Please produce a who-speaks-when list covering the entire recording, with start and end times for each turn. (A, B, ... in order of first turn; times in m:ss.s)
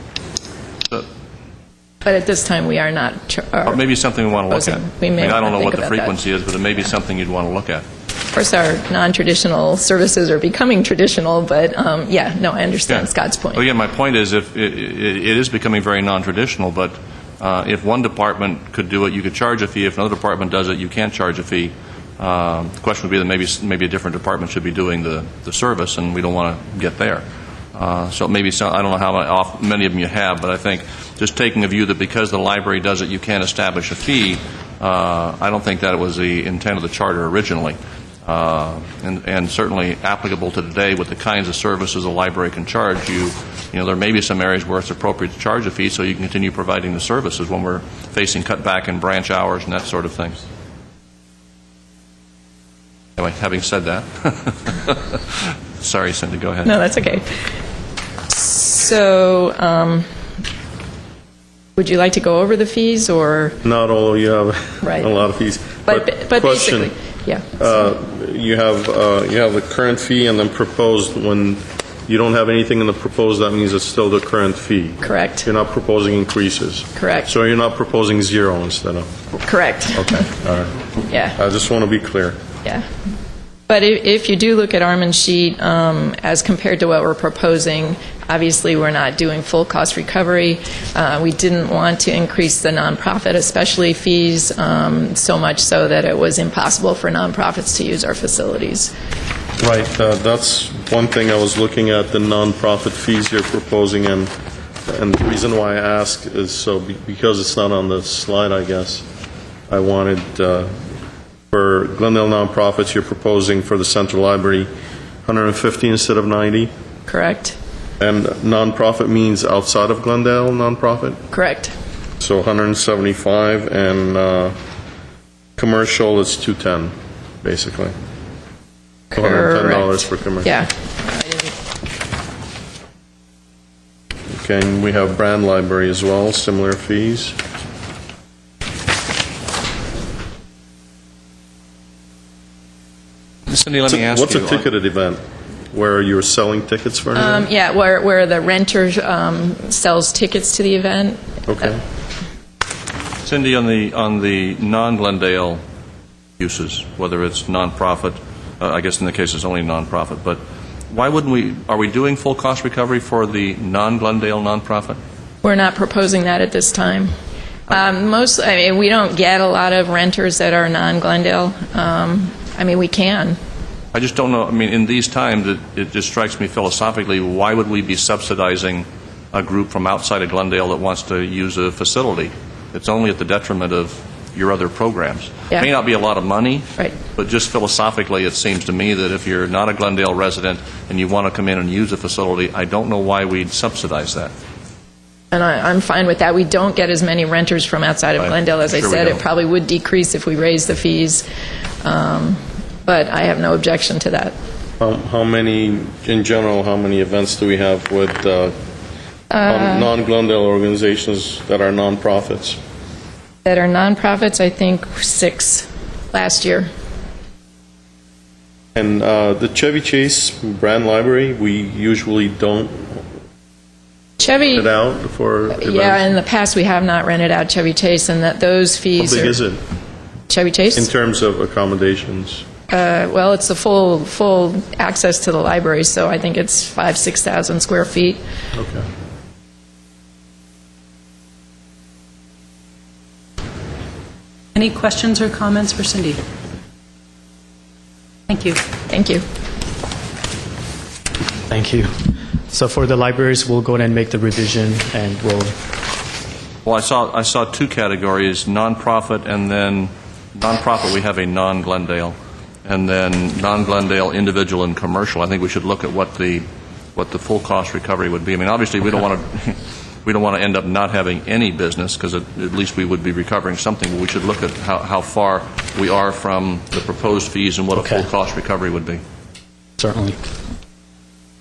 0:02.0-0:03.8 A
0:03.6-0:07.8 B
0:04.5-0:06.2 A
0:08.3-0:13.6 A
0:12.9-0:50.4 B
0:53.2-0:56.8 B
0:56.6-0:57.5 A
0:58.3-1:00.0 A
1:01.8-1:03.6 A
1:03.6-1:06.9 C
1:04.8-1:05.1 A
1:05.8-1:07.6 A
1:07.6-1:19.1 C
1:15.0-1:15.4 A
1:17.0-1:17.3 A
1:19.4-1:20.3 A
1:19.9-1:20.8 C
1:21.1-1:21.4 A
1:21.3-1:22.4 C
1:23.7-1:38.9 A
1:39.6-1:44.3 C
1:44.8-1:49.0 C
1:49.7-1:50.7 C
1:51.5-1:54.7 C
1:55.2-1:56.7 C
1:57.1-1:57.6 A
1:58.0-2:01.2 C
2:01.3-2:01.7 A
2:02.2-2:04.6 C
2:05.6-2:07.9 C
2:09.1-2:11.5 A
2:09.1-2:10.6 C
2:14.4-2:17.4 C
2:23.5-2:24.7 B
2:23.9-2:27.5 C
2:27.1-2:31.7 A
2:31.5-2:31.8 C
2:33.2-2:35.6 B
2:36.4-2:45.0 B
2:45.4-2:47.1 A
2:47.7-2:53.4 A
2:53.9-3:14.3 B
3:15.3-3:21.2 A
3:18.2-3:19.2 B
3:21.8-3:24.3 A
3:24.8-3:28.5 C
3:29.3-3:29.9 A
3:29.4-3:32.6 C
3:33.4-3:36.7 A
3:38.8-3:43.0 C
3:44.2-3:44.7 A
3:44.5-3:46.1 C
3:45.6-3:49.4 A
3:49.0-3:49.6 C
3:50.3-3:50.9 A
3:50.8-3:52.4 C
3:52.7-3:58.2 A
3:58.5-3:58.8 C
4:04.5-4:06.2 D
4:08.3-4:08.6 D
4:08.9-4:09.2 A
4:11.5-4:15.5 E
4:16.6-4:39.0 B
4:37.8-4:38.1 E
4:39.8-4:40.2 E